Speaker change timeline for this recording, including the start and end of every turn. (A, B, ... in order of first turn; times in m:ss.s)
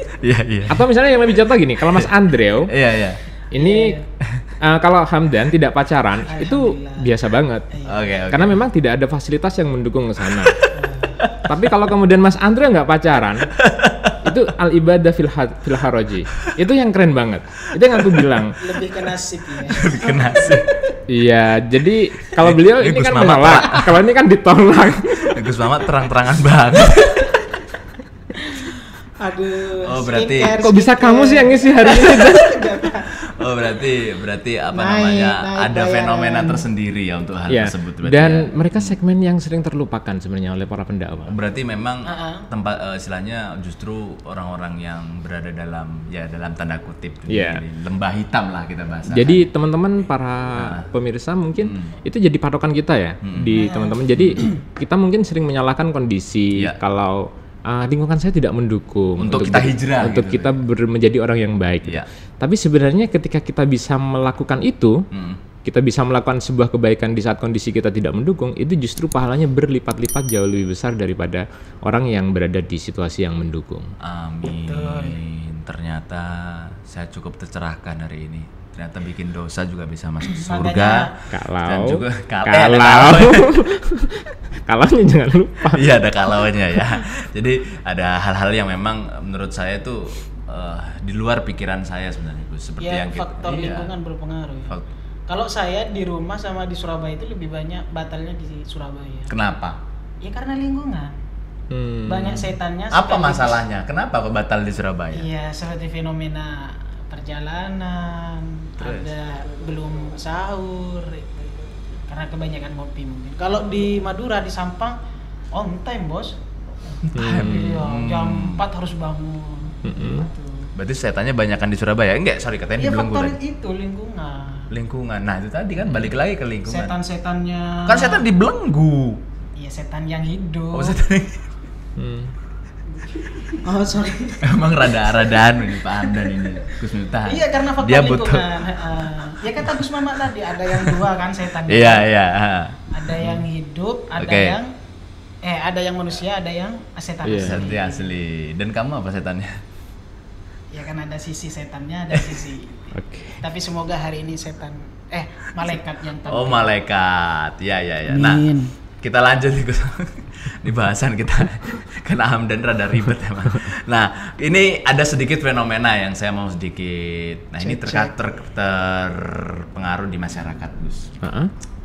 0:00.2-0:00.8 A
0:00.7-0:02.7 B
0:02.7-0:03.2 A
0:03.5-0:03.9 B
0:03.6-0:04.0 C
0:04.6-0:07.6 B
0:06.3-0:07.1 C
0:07.7-0:08.2 C
0:07.9-0:08.6 A
0:08.3-0:10.6 B
0:10.7-0:11.2 C
0:11.4-0:13.5 B
0:13.6-0:14.4 A
0:14.2-0:18.6 B
0:17.9-0:18.3 A
0:18.6-0:20.7 C
0:19.6-0:20.7 A
0:21.1-0:25.4 B
0:22.4-0:24.0 A
0:25.2-0:27.4 A
0:28.4-0:33.1 C
0:29.8-0:30.6 A
0:30.6-0:32.6 B
0:33.3-0:39.0 A
0:34.7-0:36.6 C
0:37.5-0:41.3 B
0:41.3-0:49.5 A
0:42.0-0:42.4 C
0:47.3-0:47.6 B
0:49.1-1:05.0 B
0:50.6-0:50.8 A
0:51.6-0:51.9 A
0:53.2-0:53.6 A
0:53.6-0:54.5 C
0:59.2-1:00.6 A
1:05.1-1:05.4 A
1:05.6-1:13.9 B
1:14.0-1:23.6 A
1:14.5-1:15.2 C
1:20.2-1:21.1 C
1:21.3-1:25.9 B
1:25.7-1:33.9 A
1:32.8-1:34.8 C
1:35.3-1:39.3 C
1:39.3-1:39.8 A
1:40.2-1:41.1 C
1:41.7-1:42.5 B
1:42.1-1:43.6 C
1:42.9-1:45.3 A
1:45.1-1:51.4 C
1:48.8-1:49.1 A
1:52.1-1:54.9 C
1:55.5-1:56.4 C
1:57.1-1:58.6 A
1:57.1-1:57.8 B
1:57.2-2:00.7 C
1:59.8-2:00.2 B
2:00.7-2:03.4 A
2:02.8-2:04.7 C
2:04.7-2:07.0 A
2:06.6-2:08.3 C
2:07.8-2:09.2 A
2:09.6-2:11.0 C
2:10.7-2:11.5 A
2:12.0-2:12.3 B
2:13.1-2:16.7 C
2:14.4-2:18.8 A
2:17.2-2:22.0 C
2:19.6-2:19.9 A
2:20.7-2:21.0 A
2:21.6-2:22.8 A
2:22.9-2:24.7 C
2:24.2-2:24.6 A
2:25.4-2:28.2 C
2:27.2-2:27.6 B
2:27.3-2:29.6 A
2:30.7-2:36.7 C
2:32.9-2:33.4 B
2:35.7-2:38.5 A
2:38.1-2:38.7 C
2:39.0-2:51.1 A
2:47.6-2:48.1 C
2:51.2-2:51.5 B